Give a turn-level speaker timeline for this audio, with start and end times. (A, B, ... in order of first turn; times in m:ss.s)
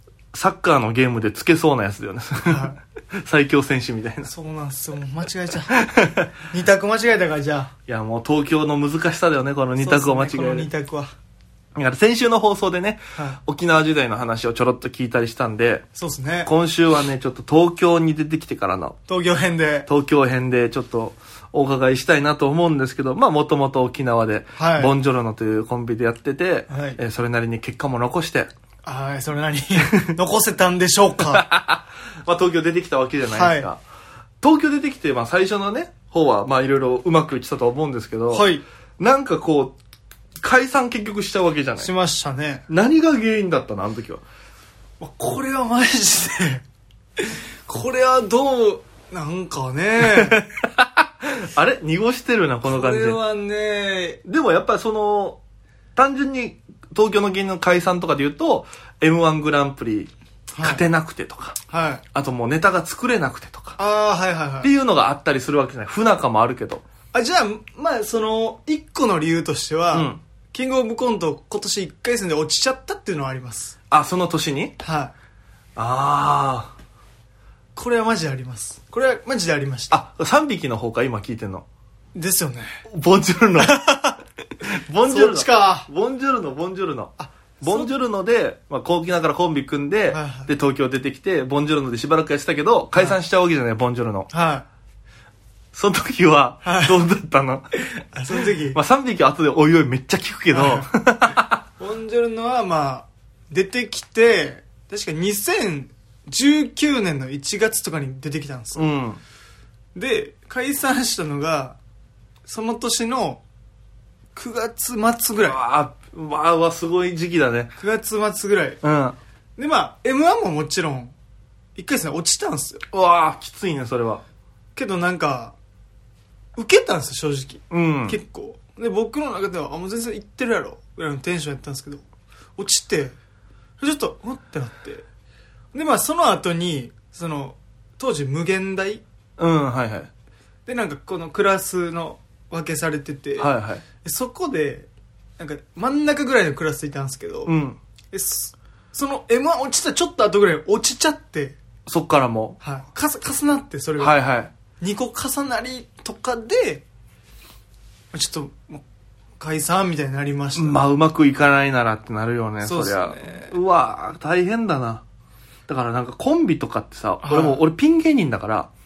0:00.3-0:04.3 A
0:02.5-0:02.8 B
0:04.2-0:05.8 B
0:05.7-0:06.3 A
0:06.5-0:07.7 B
0:07.9-0:10.7 A
0:09.8-0:11.1 B
0:11.7-0:15.9 A
0:15.9-0:16.5 B
0:16.4-0:19.0 A
0:19.1-0:19.9 B
0:19.9-0:28.5 A
0:24.6-0:24.9 B
0:26.7-0:27.0 B
0:28.8-0:31.4 B
0:31.2-0:33.8 A
0:33.3-0:33.7 B
0:34.4-0:39.8 A
0:38.3-0:38.6 B
0:40.4-0:41.9 A
0:41.8-0:42.6 B
0:42.7-0:44.2 A
0:45.0-0:46.6 B
0:47.2-0:50.4 B
0:50.0-0:53.2 A
0:52.6-0:54.2 B
0:54.2-0:55.4 A
0:56.0-1:01.6 A
1:00.5-1:00.8 B
1:01.7-1:02.0 B
1:02.1-1:03.8 A
1:03.8-1:04.7 B
1:04.6-1:06.8 A
1:07.1-1:13.8 B
1:09.9-1:10.2 A
1:13.9-1:14.8 A
1:14.8-1:15.1 B
1:15.8-1:16.7 A
1:17.7-1:20.0 B
1:19.9-1:21.6 A
1:22.1-1:22.8 B
1:22.9-1:23.8 A
1:23.6-1:24.2 B
1:24.6-1:34.3 A
1:25.0-1:25.9 B
1:27.2-1:27.9 B
1:30.1-1:30.5 B
1:34.3-1:34.6 B
1:35.7-1:41.6 A
1:36.6-1:37.0 B
1:38.1-1:38.8 B
1:40.5-1:40.9 B
1:41.8-1:48.9 B
1:48.8-1:49.2 A
1:49.9-1:51.8 B
1:52.4-1:53.4 B
1:54.3-1:55.6 B
1:55.4-1:57.8 A
1:57.8-1:58.8 B
1:58.8-1:59.2 A
1:59.6-2:01.1 B
2:01.8-2:02.8 B
2:02.9-2:04.2 A
2:04.8-2:05.6 B
2:06.6-2:12.0 B
2:07.7-2:08.2 A
2:12.6-2:13.2 B
2:13.8-2:15.0 B
2:15.7-2:19.0 B
2:19.4-2:20.1 A
2:20.6-2:27.5 B
2:23.4-2:23.8 A
2:27.4-2:27.8 A
2:28.1-2:31.6 B
2:31.9-2:32.6 A
2:32.6-2:34.1 B
2:34.0-2:34.5 A
2:34.8-2:36.8 B
2:38.1-2:38.8 B
2:39.4-2:40.8 B
2:40.6-2:45.0 A
2:42.6-2:43.6 B
2:45.7-2:48.7 A
2:47.2-2:47.6 B